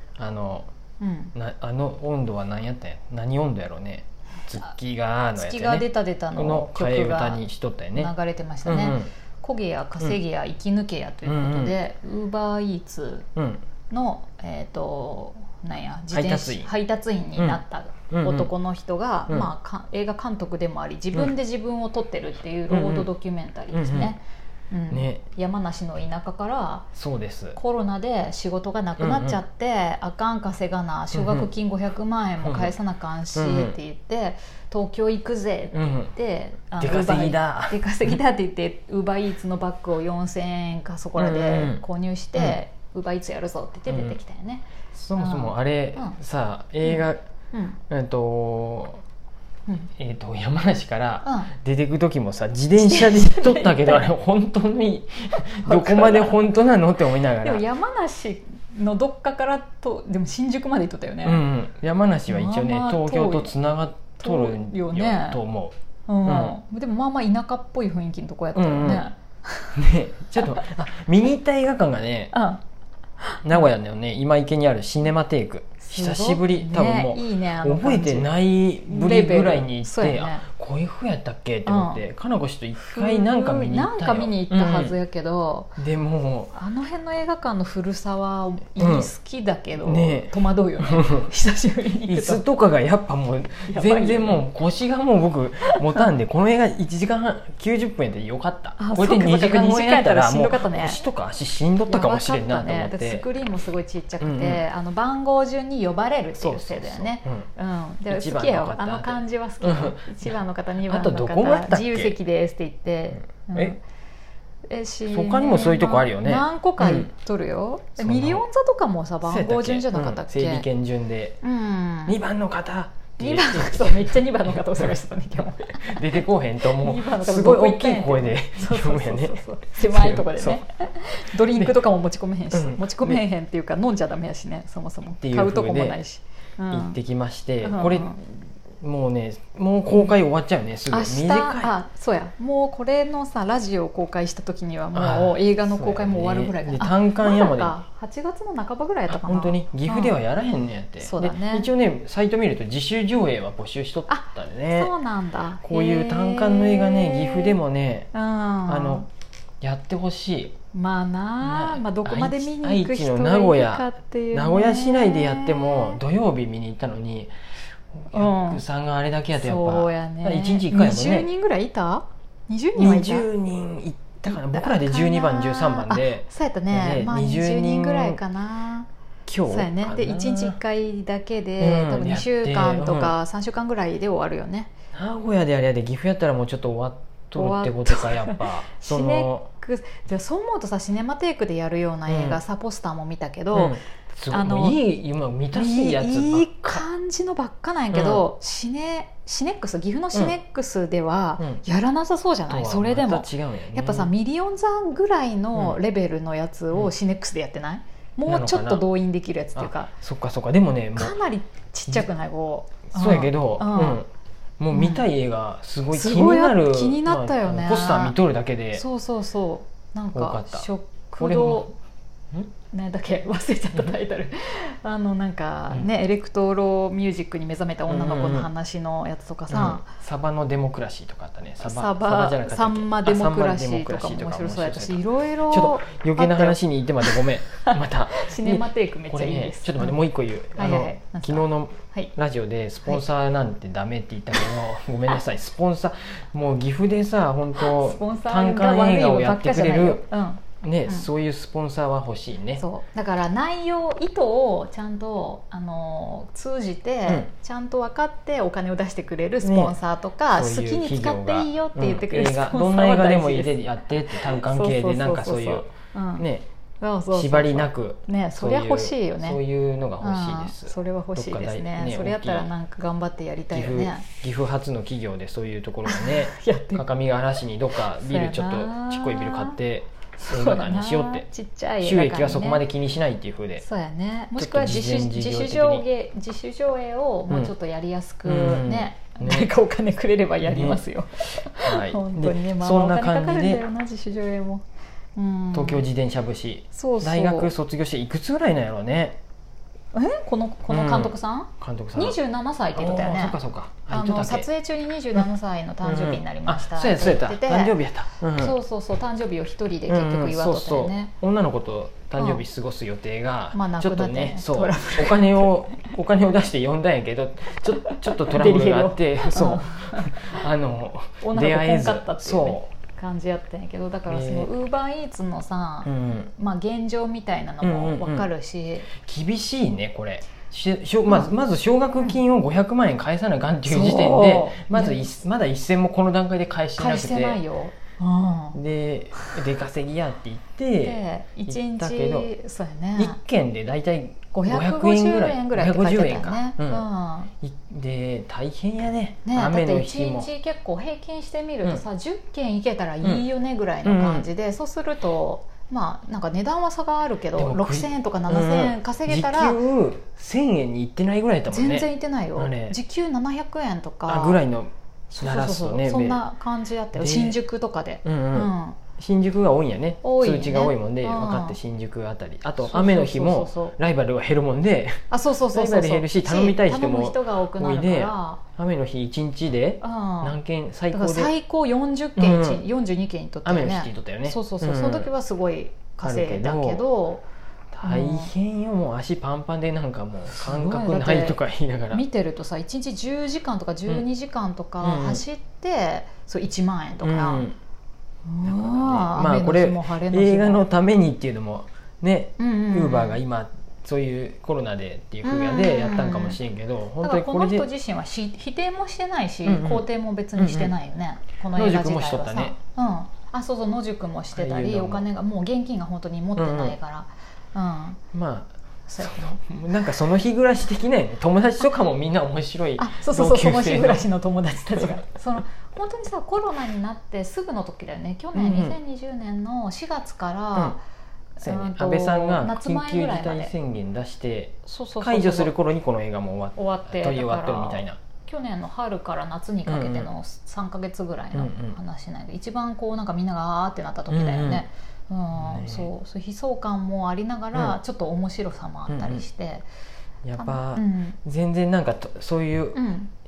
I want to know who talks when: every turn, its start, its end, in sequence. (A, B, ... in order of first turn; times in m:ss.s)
0:00.2-0:00.7 A
0:01.0-0:01.3 B
0:01.3-0:08.1 A
0:05.4-0:07.4 B
0:08.0-0:13.3 B
0:08.6-0:09.1 A
0:11.2-0:11.7 A
0:13.4-0:13.6 A
0:13.9-0:26.9 B
0:16.1-0:16.7 A
0:18.1-0:18.5 A
0:22.7-0:23.1 A
0:23.7-0:24.1 A
0:24.9-0:25.2 A
0:27.0-0:27.6 A
0:27.6-0:46.2 B
0:29.0-0:29.4 A
0:31.1-0:31.5 A
0:32.4-0:32.7 A
0:33.3-0:33.8 A
0:35.7-0:36.1 A
0:36.8-0:38.2 A
0:41.1-0:41.8 A
0:43.9-0:44.2 A
0:44.9-0:47.2 A
0:46.8-0:47.8 B
0:47.9-0:49.0 A
0:50.0-0:57.6 A
0:51.2-0:51.5 B
0:52.8-0:54.1 B
0:55.3-0:56.4 B
0:57.3-1:01.4 B
1:01.2-1:05.7 A
1:02.3-1:03.5 B
1:04.2-1:05.4 B
1:06.1-1:09.8 B
1:06.2-1:06.6 A
1:08.5-1:09.0 A
1:09.8-1:12.3 A
1:12.3-1:12.6 B
1:13.2-1:13.6 B
1:13.4-1:24.9 A
1:15.8-1:18.3 B
1:18.9-1:20.4 B
1:21.6-1:22.0 B
1:22.8-1:25.8 B
1:25.8-1:26.5 A
1:26.5-1:32.4 B
1:28.8-1:29.1 A
1:29.8-1:31.3 A
1:32.0-1:43.2 A
1:33.6-1:34.4 B
1:35.6-1:36.1 B
1:38.8-1:41.0 B
1:41.9-1:53.8 B
1:44.2-1:44.6 A
1:46.4-1:47.5 A
1:48.1-1:52.1 A
1:53.3-1:53.7 A
1:54.7-2:00.7 B
1:55.0-1:57.1 A
1:58.0-1:58.4 A
1:59.2-2:01.4 A
2:01.4-2:02.2 B
2:02.1-2:05.0 A
2:03.2-2:17.0 B
2:05.8-2:10.6 A
2:11.4-2:11.8 A
2:12.5-2:13.2 A
2:15.2-2:16.0 A
2:16.7-2:21.7 A
2:17.6-2:18.2 B
2:20.9-2:30.1 B
2:24.9-2:27.7 A
2:29.1-2:34.9 A
2:31.0-2:31.7 B
2:34.1-2:37.6 B
2:35.6-2:38.1 A
2:38.1-2:39.1 B
2:38.7-2:39.0 A
2:39.6-2:40.5 A
2:40.7-2:46.0 B
2:41.4-2:47.3 A
2:47.9-2:51.3 A
2:48.1-2:48.6 B
2:49.3-2:53.3 B
2:52.8-2:58.2 A
2:54.2-2:58.9 B
2:59.2-3:00.6 A
2:59.5-3:04.7 B
3:01.6-3:03.1 A
3:04.9-3:09.5 A
3:07.3-3:13.8 B
3:12.1-3:12.4 A
3:13.5-3:16.8 A
3:14.3-3:14.8 B
3:15.5-3:29.9 B
3:17.9-3:18.2 A
3:22.5-3:24.1 A
3:28.2-3:28.8 A
3:29.6-3:31.2 A
3:31.0-3:34.0 B
3:32.9-3:34.1 A
3:34.6-3:38.8 A
3:34.7-3:35.1 B
3:35.9-3:38.2 B
3:38.7-3:41.7 B
3:40.1-3:41.7 A
3:42.7-3:49.8 B
3:47.9-3:48.5 A
3:49.5-4:12.6 A
3:51.6-4:00.0 B
4:00.6-4:02.1 B
4:07.6-4:11.1 B
4:12.6-4:23.6 B
4:19.4-4:19.8 A
4:20.3-4:25.6 A
4:24.1-4:26.2 B
4:26.2-4:26.4 A
4:26.8-4:29.4 B
4:27.1-4:32.5 A
4:30.0-4:34.0 B
4:33.5-4:41.2 A
4:35.8-4:36.8 B
4:38.0-4:39.6 B
4:40.2-4:42.6 B
4:41.8-4:43.6 A
4:43.6-4:54.6 B
4:44.4-4:45.8 A
4:48.2-4:49.5 A
4:50.4-4:50.8 A
4:51.6-4:53.6 A
4:55.2-4:55.8 B
4:55.5-4:59.2 A
4:56.7-4:57.5 B
4:59.9-5:03.4 B
5:00.7-5:02.2 A
5:02.7-5:04.5 A
5:03.9-5:07.8 B
5:05.8-5:08.6 A
5:08.3-5:11.1 B
5:09.9-5:22.7 A
5:12.2-5:12.4 B
5:13.5-5:15.6 B
5:17.8-5:20.4 B
5:21.2-5:28.9 B
5:24.1-5:24.5 A
5:25.8-5:26.3 A
5:27.6-5:28.3 A
5:28.9-5:37.4 A
5:33.6-5:35.1 B
5:36.8-5:38.6 B
5:38.5-5:42.3 A
5:39.1-5:39.4 B
5:40.8-5:43.2 B
5:43.0-5:46.9 A
5:44.3-5:47.3 B
5:47.4-5:50.3 A
5:49.2-5:59.6 B
5:53.8-5:54.3 A
5:57.3-6:02.8 A
6:01.5-6:04.4 B
6:04.0-6:06.2 A
6:05.1-6:08.8 B
6:06.9-6:07.4 A
6:08.0-6:21.3 A
6:10.0-6:11.6 B
6:12.6-6:13.8 B
6:15.1-6:18.4 B
6:19.8-6:20.3 B
6:20.9-6:27.2 B
6:22.2-6:22.6 A
6:23.4-6:25.1 A
6:26.0-6:26.8 A
6:27.7-6:32.0 A
6:27.8-6:28.3 B
6:30.4-6:37.5 B
6:34.8-6:35.2 A
6:37.0-6:37.6 A
6:38.2-6:40.6 B
6:38.4-6:47.7 A
6:42.4-6:43.2 B
6:45.2-6:46.4 B
6:47.0-6:58.0 B
6:49.4-6:50.7 A
6:51.5-6:52.6 A
6:54.3-6:55.0 A
6:56.3-6:56.8 A
6:58.1-7:04.1 A
6:58.9-6:59.4 B
7:02.8-7:10.8 B
7:08.3-7:08.8 A
7:11.4-7:13.5 B
7:11.4-7:18.0 A
7:14.6-7:15.5 B
7:16.6-7:29.6 B
7:19.6-7:20.1 A
7:21.3-7:21.8 A
7:24.1-7:24.6 A
7:25.3-7:25.9 A
7:28.9-7:29.2 A
7:30.2-7:32.8 A
7:30.4-7:31.2 B
7:32.7-7:33.1 B